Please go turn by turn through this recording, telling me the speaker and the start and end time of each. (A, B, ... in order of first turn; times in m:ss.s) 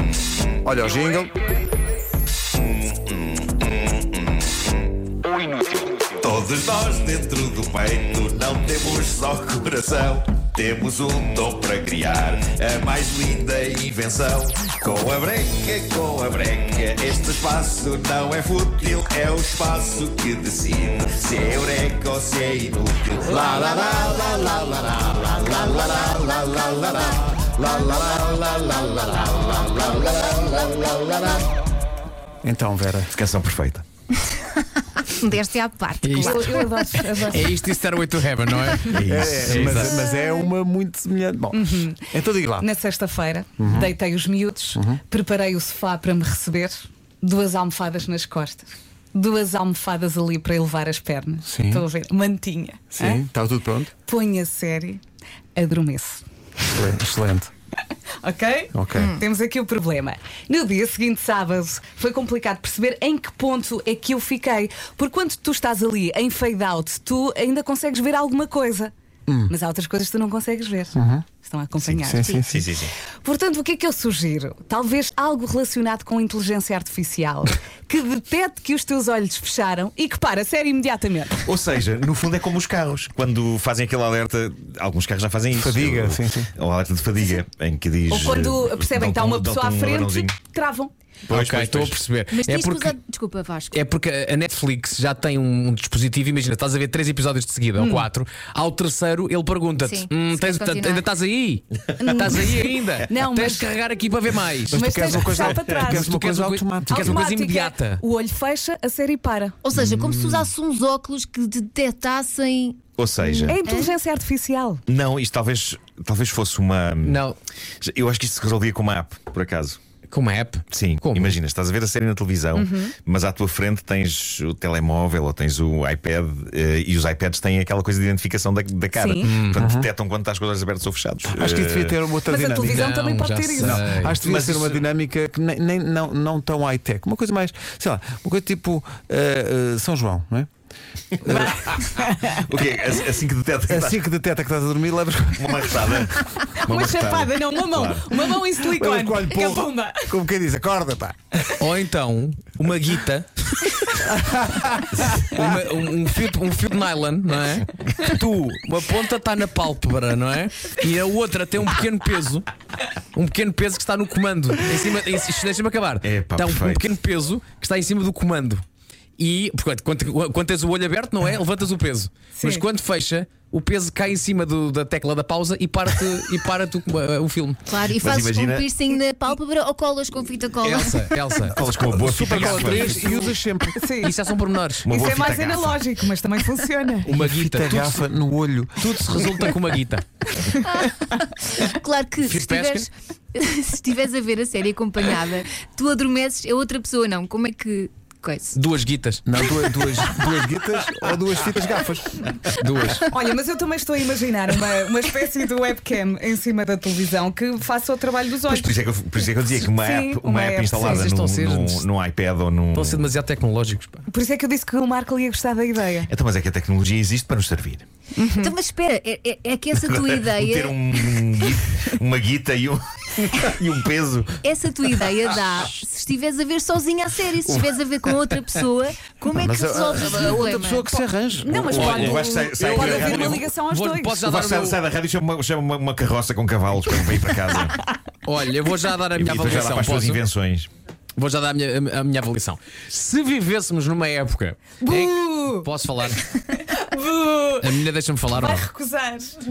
0:00.6-0:01.3 A
0:02.9-0:04.0 B
0:06.2-0:30.7 B
0:25.8-0:26.5 C
0:30.4-0:31.2 C
0:32.4-0:33.1 A
0:33.1-0:33.8 B
0:34.2-0:37.0 C
0:36.0-0:36.5 D
0:36.1-0:37.5 E
0:37.2-0:40.0 D
0:38.8-0:39.7 B
0:39.0-0:42.7 A
0:41.5-0:42.0 E
0:42.6-0:53.2 E
0:43.6-0:43.9 A
0:44.7-0:45.0 A
0:51.4-0:51.8 A
0:52.9-0:53.9 A
0:54.0-0:55.0 E
0:55.6-0:56.2 E
0:56.7-0:57.5 A
0:58.2-1:08.9 E
0:58.7-0:59.2 A
0:58.9-0:59.2 C
1:09.3-1:09.5 A
1:09.5-1:12.5 E
1:10.9-1:11.2 A
1:11.8-1:12.9 B
1:12.0-1:12.7 A
1:13.2-1:21.4 E
1:21.4-1:30.4 B
1:25.5-1:26.5 A
1:28.1-1:30.9 E
1:31.3-1:32.9 D
1:31.3-1:32.0 B
1:32.3-1:33.8 C
1:33.7-1:44.9 D
1:37.8-1:38.0 E
1:39.8-1:41.0 C
1:42.0-1:43.7 E
1:44.7-1:47.2 A
1:44.7-1:46.1 E
1:45.4-1:45.7 B
1:45.9-1:48.0 D
1:46.9-1:49.6 E
1:49.6-1:53.9 C
1:49.7-1:50.4 A
1:53.0-1:53.6 B
1:53.5-1:54.8 E
1:54.9-1:57.2 B
1:57.0-1:57.4 D
1:57.8-1:59.8 B
2:00.1-2:01.4 D
2:00.7-2:12.0 B
2:02.5-2:02.9 E
2:09.0-2:09.3 E
2:09.2-2:09.6 D
2:09.6-2:09.9 A
2:11.3-2:12.9 A
2:12.3-2:13.8 E
2:12.6-2:14.2 D
2:13.6-2:20.5 A
2:14.2-2:14.8 B
2:21.3-2:22.4 E
2:21.3-2:24.0 B
2:23.7-2:26.4 A
2:25.3-2:28.3 B
2:26.6-2:30.2 E
2:28.7-2:31.2 A
2:31.6-2:33.7 D
2:33.9-2:35.4 A
2:35.1-2:42.5 D
2:43.1-2:48.6 D
2:46.0-2:46.9 B
2:49.2-2:57.6 D
2:52.4-2:52.6 E
2:57.7-3:01.5 C
2:58.0-2:58.6 B
3:00.6-3:01.5 D
3:01.5-3:03.4 B
3:01.6-3:03.9 A
3:02.3-3:03.2 D
3:03.8-3:04.1 E
3:04.0-3:04.9 D
3:04.8-3:05.8 B
3:04.9-3:07.1 E
3:07.0-3:08.0 D
3:07.2-3:09.5 A
3:08.8-3:10.4 D
3:10.6-3:18.6 C
3:12.2-3:12.9 D
3:18.5-3:19.2 D
3:19.2-3:22.3 A
3:22.6-3:23.1 D
3:23.1-3:28.8 E
3:28.4-3:33.1 B
3:29.6-3:31.0 E
3:30.7-3:31.8 D
3:32.7-3:34.1 D
3:34.1-3:36.1 E
3:36.1-3:37.8 B
3:38.2-3:38.5 E
3:38.3-3:41.2 C
3:39.8-3:44.4 B
3:44.4-3:50.9 C
3:49.2-3:52.0 A
3:51.4-3:54.2 E
3:51.7-3:53.5 B
3:51.7-3:54.8 D
3:54.2-3:57.8 B
3:58.2-4:00.2 D
3:59.1-4:00.7 B
4:01.2-4:06.2 D
4:04.8-4:05.7 E
4:06.4-4:07.8 E
4:07.6-4:08.7 D
4:08.3-4:09.4 E